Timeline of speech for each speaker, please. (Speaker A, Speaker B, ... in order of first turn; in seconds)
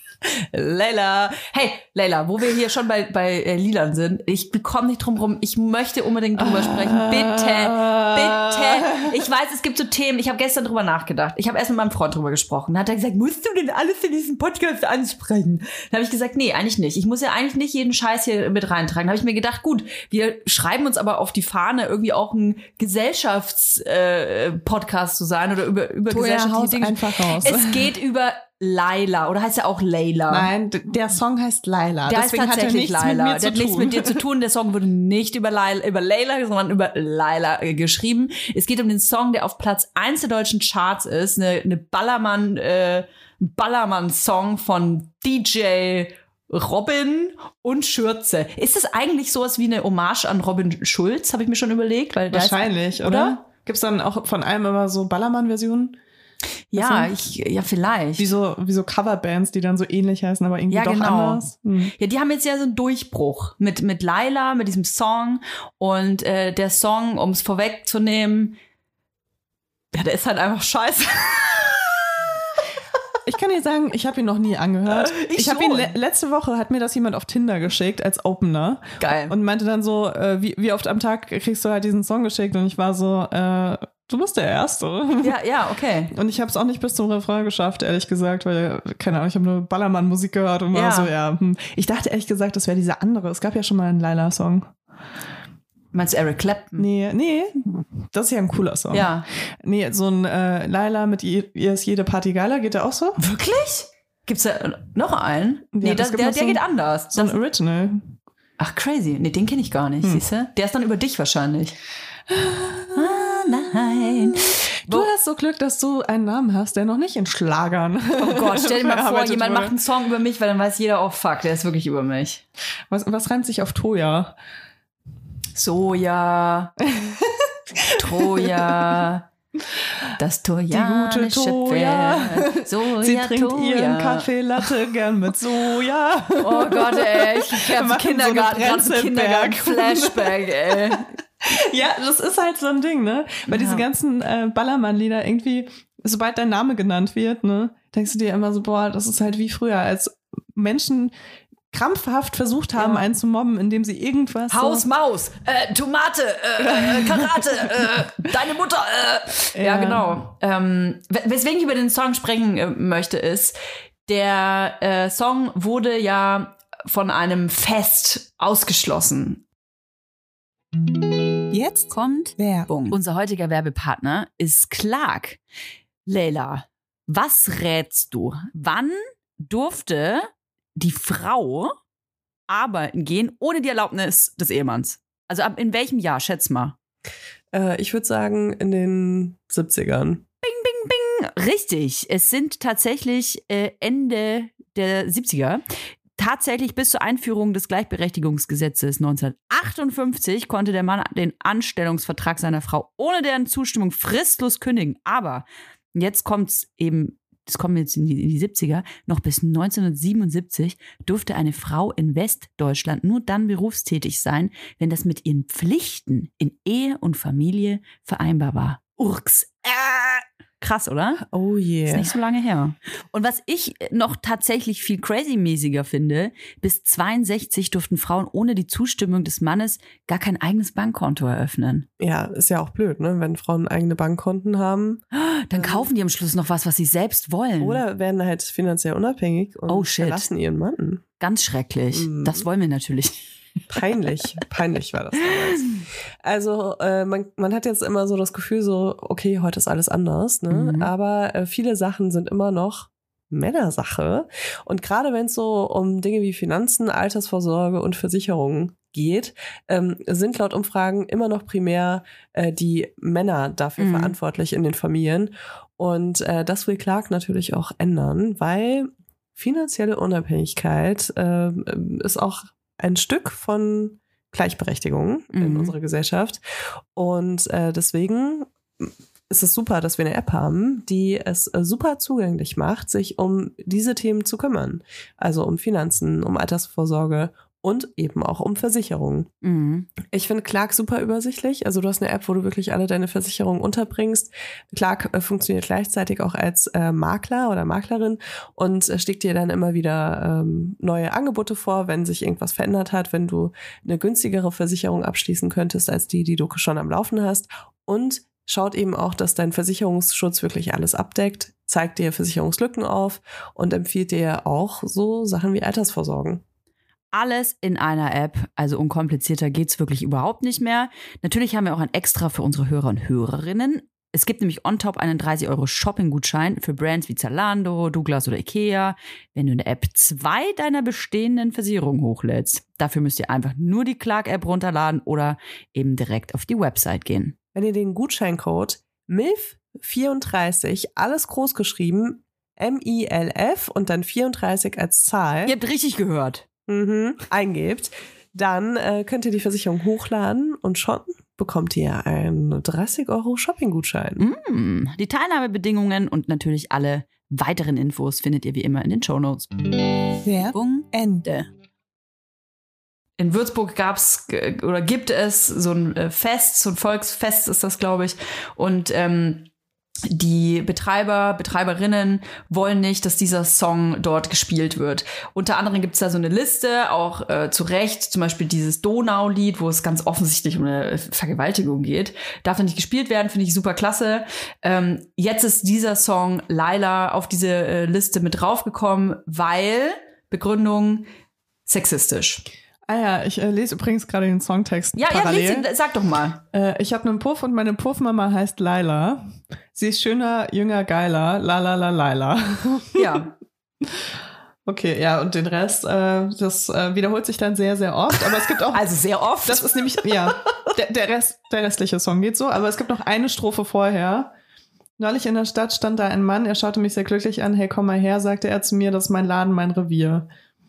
Speaker A: 0.2-30.5, 32.1-53.4, 56.7-58.3, 60.7-61.4, 62.0-68.6, 69.9-72.0, 74.9-75.9, 79.0-79.3, 85.2-86.1, 90.7-91.1, 95.9-96.8, 98.9-99.3, 103.2-107.4, 108.6-111.8, 113.0-115.1, 118.2-122.4, 125.6-126.7, 128.0-129.3, 130.2-134.3, 136.4-141.1, 143.5-143.8, 152.8-153.1, 154.5-163.6, 164.1-169.4, 171.9-175.4, 176.1-181.8, 182.5-186.8, 190.4-195.6, 196.2-221.2, 221.9-231.9, 235.1-237.8, 239.7-240.3, 241.2-243.2, 245.4-245.8, 250.5-250.9, 263.8-264.2, 275.3-275.8, 289.4-289.9, 317.1-337.4, 345.5-346.4, 354.2-359.5, 360.5-361.5, 363.2-369.5, 370.1-391.1, 391.7-392.4, 395.0-396.4, 402.9-403.3, 408.7-410.6
Speaker B: 6.4-9.1, 26.1-27.9, 30.3-34.2, 52.3-56.0, 56.8-57.1, 58.2-61.9, 73.3-85.3, 86.1-94.7, 96.8-99.1, 99.6-103.2, 105.8-108.1, 112.3-119.8, 122.9-124.3, 126.9-129.0, 130.7-151.1, 151.7-154.8, 156.6-157.4, 159.6-160.2, 171.5-172.7, 360.2-361.3, 392.9-395.7, 396.5-403.3, 404.7-408.9, 409.4-414.3, 415.0-420.3
Speaker C: 187.5-190.2, 221.3-222.1, 232.0-235.0, 235.6-235.9, 237.6-241.0, 241.9-242.5, 243.7-276.4, 276.9-289.3, 290.1-316.4, 337.5-345.5, 346.7-354.2